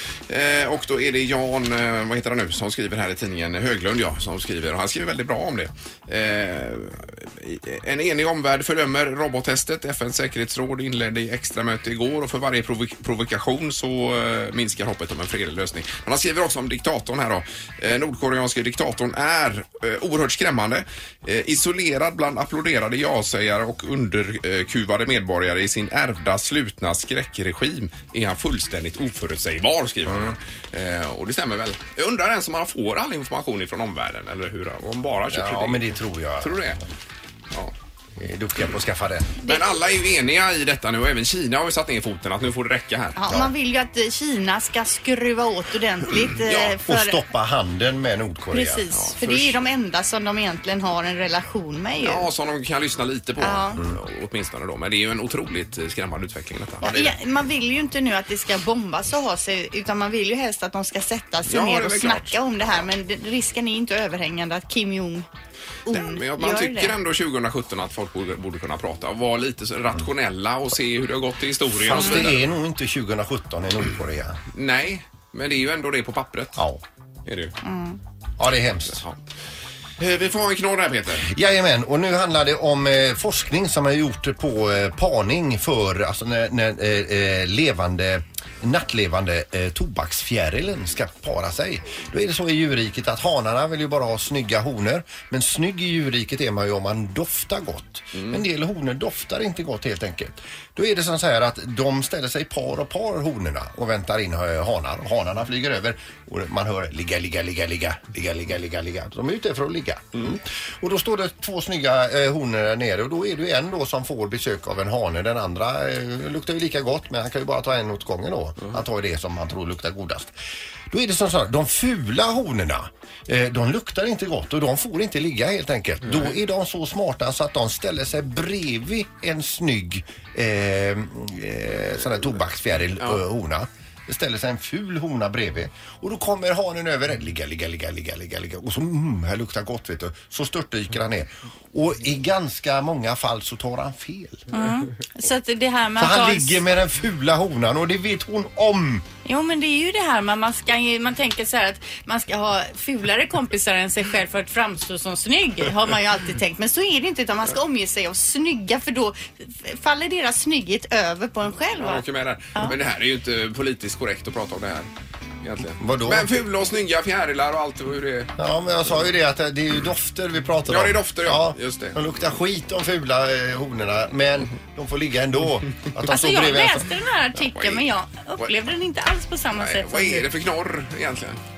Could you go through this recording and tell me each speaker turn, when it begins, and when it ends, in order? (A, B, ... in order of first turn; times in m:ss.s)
0:00.3-0:35.9 A
0:30.1-0:30.4 B
0:35.3-0:36.8 B
0:36.4-0:36.8 A
0:38.2-0:39.4 B
0:39.5-0:43.2 A
0:43.2-0:47.2 C
0:46.4-0:46.8 A
0:46.9-0:48.8 B
0:48.5-0:52.3 C
0:48.9-0:49.6 A
0:52.0-0:57.2 A
0:53.4-0:53.8 C
0:56.8-1:05.3 C
1:01.5-1:02.8 A
1:05.9-1:07.0 C
1:05.9-1:12.4 A
1:11.8-1:14.4 B
1:14.5-1:16.6 A
1:16.6-1:16.8 B
1:17.3-1:17.5 A
1:17.6-1:18.0 C
1:18.4-1:19.0 B
1:20.0-1:21.3 A
1:21.2-2:00.3 B
1:38.1-1:38.4 A
2:00.9-2:24.5 B
2:06.1-2:06.3 A
2:24.5-2:26.6 C
2:26.0-2:29.0 B
2:29.2-2:42.0 C
2:41.8-2:44.9 A
2:45.4-2:48.3 A
2:45.8-2:46.3 B
2:48.4-2:56.9 B
2:50.7-2:52.0 A
2:56.1-3:00.3 C
2:57.4-2:57.9 A
2:59.6-3:01.4 A